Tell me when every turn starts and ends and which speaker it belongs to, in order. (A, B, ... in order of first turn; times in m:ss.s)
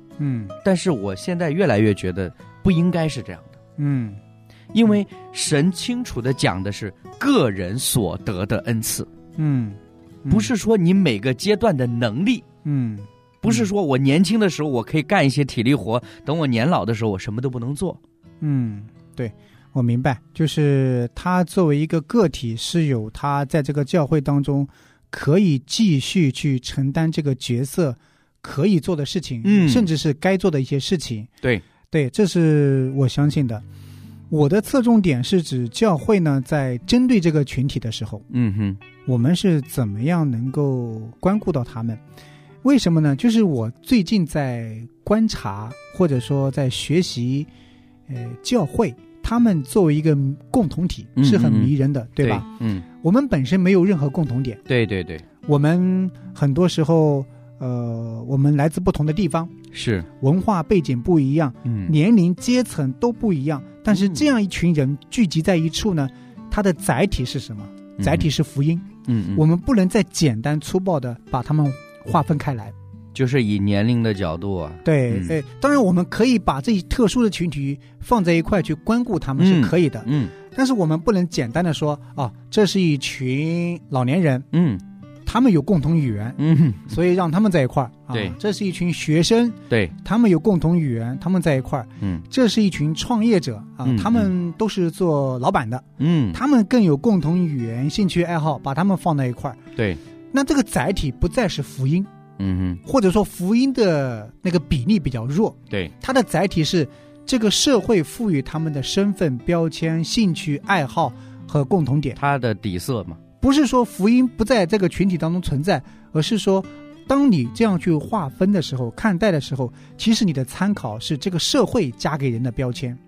0:00.2-0:00.6 A
0:00.6-0:03.6 B
0:03.8-0:04.2 A
0:04.7-0:09.1 B
0:09.4-0:10.5 A
0:10.3-0:12.4 B
0:12.6-0:13.7 A
0:13.4-0:18.0 B
0:18.4-0:31.3 A
0:29.4-0:29.9 B
0:31.9-0:33.6 A
0:34.3-0:38.2 A
0:38.3-0:38.8 B
0:39.1-0:42.0 A
0:42.6-0:47.5 A
0:48.1-0:52.5 A
0:51.2-0:52.9 B
0:53.0-0:54.6 A
0:54.7-0:55.2 B
0:55.5-0:59.5 A
0:59.7-1:00.1 B
1:00.2-1:12.7 A
1:01.6-1:01.9 B
1:03.9-1:04.3 B
1:08.0-1:08.3 B
1:09.1-1:09.4 B
1:13.2-1:15.4 B
1:14.8-1:24.5 A
1:19.4-1:20.4 B
1:24.5-1:24.8 B
1:25.3-1:39.6 A
1:26.4-1:26.9 B
1:29.7-1:30.0 B
1:33.8-1:34.3 B
1:36.0-1:36.4 B
1:40.3-1:42.1 A
1:42.4-1:42.8 B
1:42.8-1:52.2 A
1:52.2-1:53.2 B
1:53.4-2:03.0 A